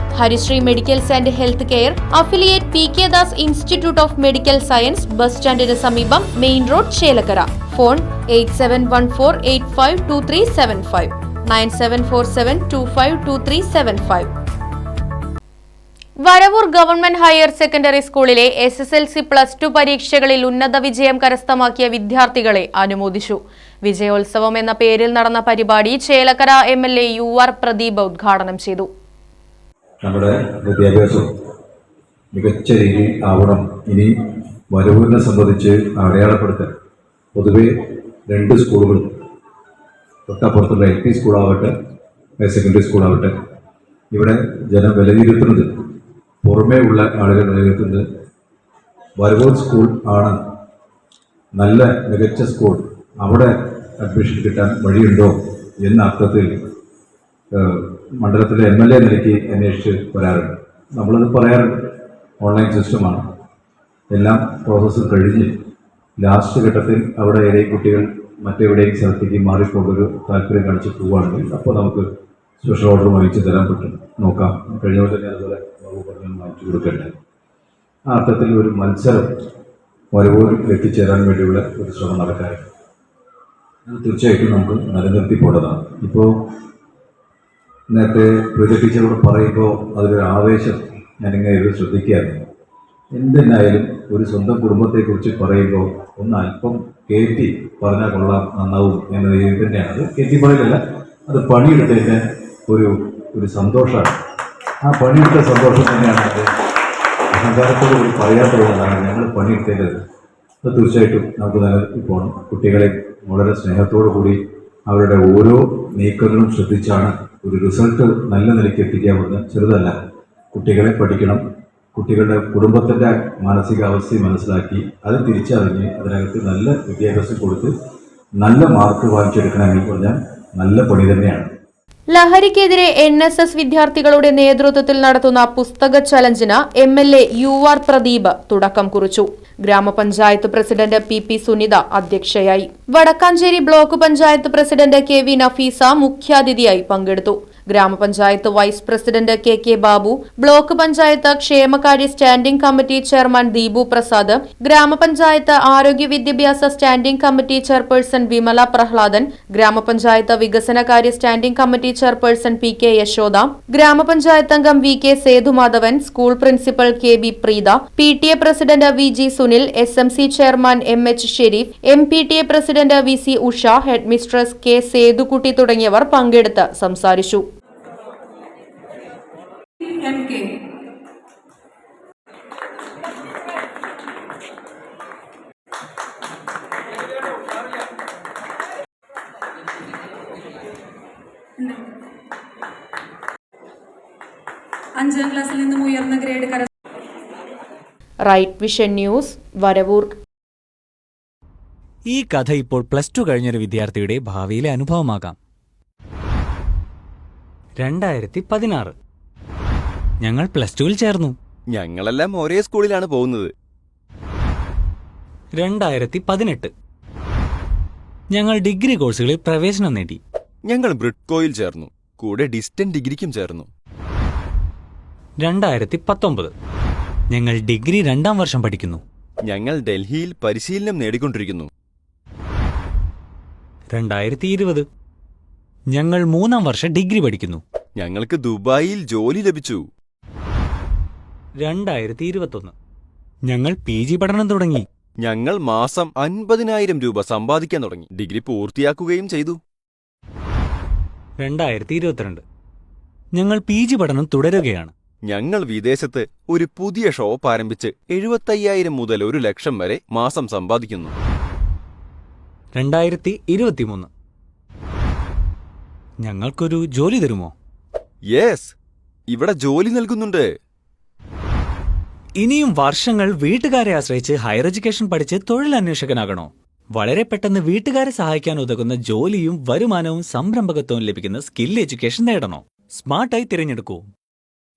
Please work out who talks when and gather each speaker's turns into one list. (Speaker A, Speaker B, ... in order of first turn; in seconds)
Speaker A: 0.1-14.3, 16.2-28.9, 132.1-177.4, 198.3-200.2
Speaker B: 30.0-31.2, 32.3-34.1, 34.7-36.7, 37.3-37.7, 38.3-39.1, 40.3-41.7, 42.4-43.3, 44.1-45.7, 46.4-48.0, 49.2-50.4, 51.6-56.5, 57.5-63.2, 64.1-65.5, 66.2-72.1, 72.6-77.1, 78.1-79.2, 80.1-82.6, 83.9-86.3, 87.9-92.4, 93.1-104.2, 104.8-106.5, 107.3-110.0, 110.6-120.0, 120.5-121.4, 121.9-127.7, 128.4-131.5
Speaker C: 179.8-180.5, 191.6-191.9, 195.0-196.7
Speaker D: 202.1-205.4, 207.8-209.0, 210.2-211.3, 215.6-216.7, 218.3-220.2, 225.4-226.5, 227.3-229.0, 233.9-234.9, 235.9-237.6, 241.6-242.7, 243.5-244.8, 251.4-252.4, 253.4-254.9, 262.8-264.1, 266.2-267.5, 272.4-284.1
Speaker E: 211.7-213.5, 220.7-223.7, 229.5-231.7, 238.0-239.8, 245.2-249.6, 255.3-261.1, 268.3-268.7, 269.3-270.5